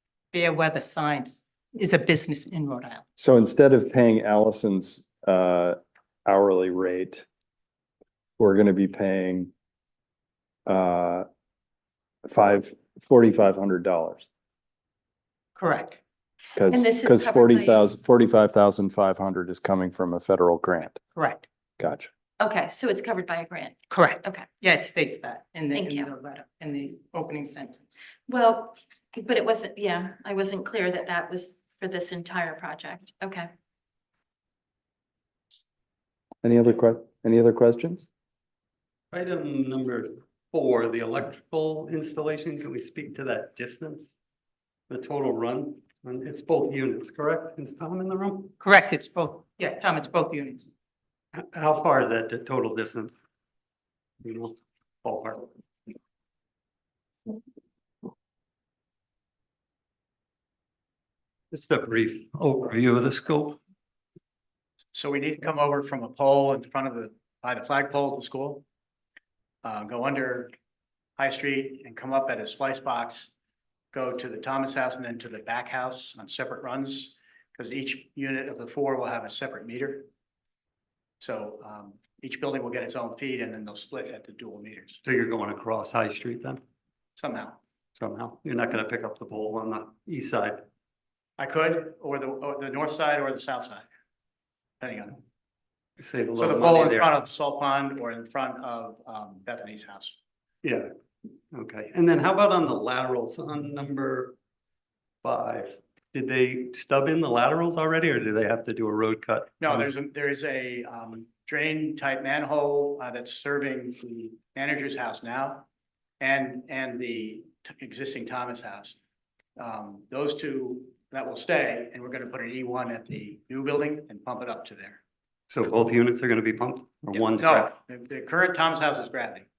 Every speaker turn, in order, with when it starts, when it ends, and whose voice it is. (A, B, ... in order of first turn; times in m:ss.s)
0:00.3-0:03.0 A
0:03.2-0:07.2 B
0:08.4-0:09.5 B
0:10.7-0:11.2 B
0:12.3-0:14.3 B
0:15.6-0:16.0 A
0:16.6-0:21.0 B
0:16.7-0:17.8 C
0:21.2-0:21.4 A
0:21.8-0:22.1 B
0:22.4-0:24.5 C
0:23.9-0:27.9 A
0:25.7-0:26.1 C
0:28.3-0:33.5 C
0:36.4-0:38.1 B
0:39.1-0:44.2 D
0:44.9-0:48.6 D
0:48.6-0:50.7 A
0:51.3-0:53.1 D
0:54.2-0:55.5 D
1:01.5-1:03.6 D
1:04.9-1:08.6 E
1:09.6-1:10.5 E
1:11.2-1:13.3 E
1:13.9-1:20.1 E
1:21.2-1:25.0 E
1:25.0-1:26.6 D
1:27.2-1:27.6 E
1:28.0-1:30.6 D
1:31.4-1:33.8 E
1:34.8-1:35.2 E
1:36.0-1:37.2 D
1:36.4-1:40.2 E
1:40.6-1:40.9 D
1:41.5-1:44.4 D
1:45.2-1:49.9 D
1:49.6-1:55.7 E
1:56.2-1:59.0 E
1:59.6-2:05.0 E
2:05.5-2:07.7 D
2:07.2-2:09.5 E